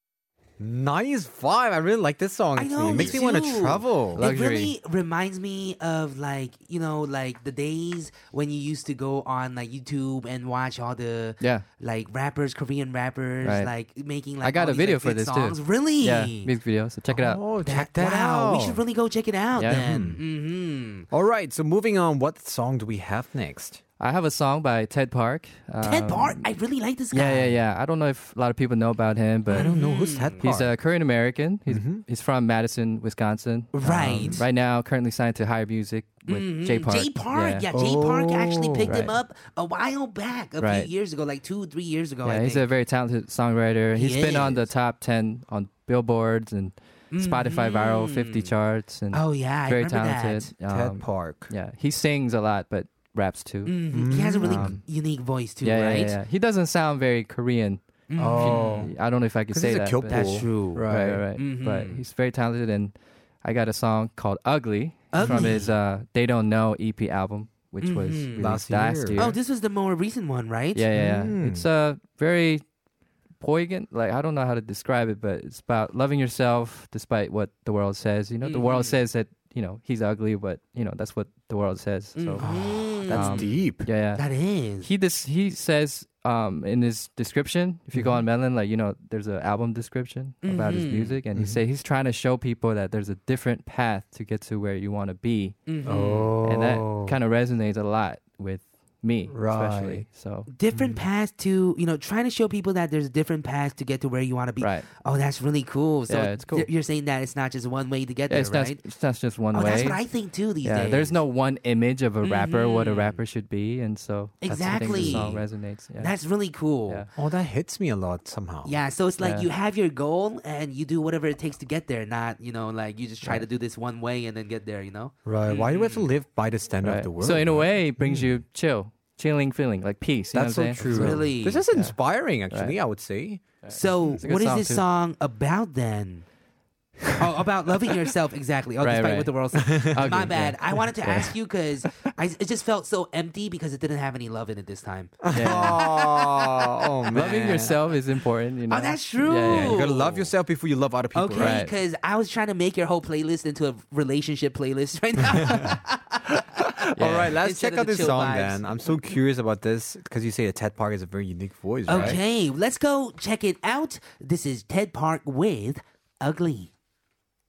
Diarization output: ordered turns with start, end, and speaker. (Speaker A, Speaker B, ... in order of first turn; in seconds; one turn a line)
Speaker A: 0.6-4.2
Speaker B: 2.5-16.5
Speaker C: 4.2-4.8
Speaker C: 11.4-11.6
Speaker C: 13.4-13.7
Speaker C: 14.4-17.4
Speaker A: 17.1-18.8
Speaker B: 17.6-21.1
Speaker C: 19.6-19.9
Speaker A: 19.7-20.2
Speaker A: 21.1-23.8
Speaker C: 24.0-26.5
Speaker B: 25.8-27.6
Speaker C: 27.1-29.7
Speaker A: 29.5-30.7
Speaker B: 29.5-30.4
Speaker C: 30.4-37.6
Speaker A: 31.7-32.0
Speaker B: 33.7-34.4
Speaker A: 33.9-34.5
Speaker B: 36.3-42.6
Speaker A: 37.7-39.1
Speaker C: 38.9-39.1
Speaker C: 40.6-40.9
Speaker C: 42.2-53.8
Speaker B: 43.9-44.6
Speaker B: 47.1-48.5
Speaker B: 49.1-50.5
Speaker A: 50.7-51.5
Speaker B: 53.6-56.1
Speaker A: 53.9-54.8
Speaker C: 54.4-54.8
Speaker C: 55.6-57.8
Speaker B: 58.1-58.9
Speaker A: 58.2-58.9
Speaker C: 58.4-69.4
Speaker A: 59.5-61.2
Speaker B: 60.1-60.8
Speaker B: 61.4-62.0
Speaker B: 65.1-65.7
Speaker A: 65.2-65.6
Speaker B: 67.8-68.4
Speaker A: 68.4-69.3
Speaker B: 69.2-70.8
Speaker C: 70.7-72.6
Speaker A: 70.9-71.7
Speaker C: 73.4-82.4
Speaker B: 78.4-79.0
Speaker B: 82.2-83.5
Speaker A: 82.4-83.9
Speaker C: 83.0-84.2
Speaker B: 84.1-84.9
Speaker C: 84.8-95.6
Speaker A: 87.9-88.2
Speaker B: 90.4-91.2
Speaker A: 91.3-91.6
Speaker B: 95.7-96.3
Speaker A: 95.8-97.1
Speaker C: 96.4-100.5
Speaker A: 99.3-100.1
Speaker B: 100.5-108.8
Speaker A: 100.7-101.0
Speaker C: 104.6-104.9
Speaker C: 106.1-106.7
Speaker C: 108.3-110.0
Speaker B: 109.5-111.2
Speaker C: 110.6-116.1
Speaker B: 112.2-113.2
Speaker B: 114.4-115.4
Speaker A: 114.5-115.4
Speaker B: 116.0-117.0
Speaker A: 117.2-118.7
Speaker B: 118.6-126.0
Speaker C: 119.2-119.5
Speaker A: 125.2-128.3
Speaker C: 126.8-132.0
Speaker A: 130.3-133.4
Speaker B: 130.8-131.6
Speaker C: 132.5-132.8
Speaker C: 133.6-134.8
Speaker B: 133.7-136.2
Speaker B: 137.2-146.7
Speaker C: 138.8-141.3
Speaker A: 139.6-140.3
Speaker A: 145.2-147.8
Speaker C: 145.3-145.8
Speaker C: 147.1-149.8
Speaker B: 148.7-150.3
Speaker A: 149.4-151.6
Speaker B: 151.1-156.4
Speaker C: 151.4-151.7
Speaker A: 155.4-155.8
Speaker A: 156.6-162.2
Speaker C: 157.0-157.3
Speaker B: 157.4-158.9
Speaker B: 161.9-166.7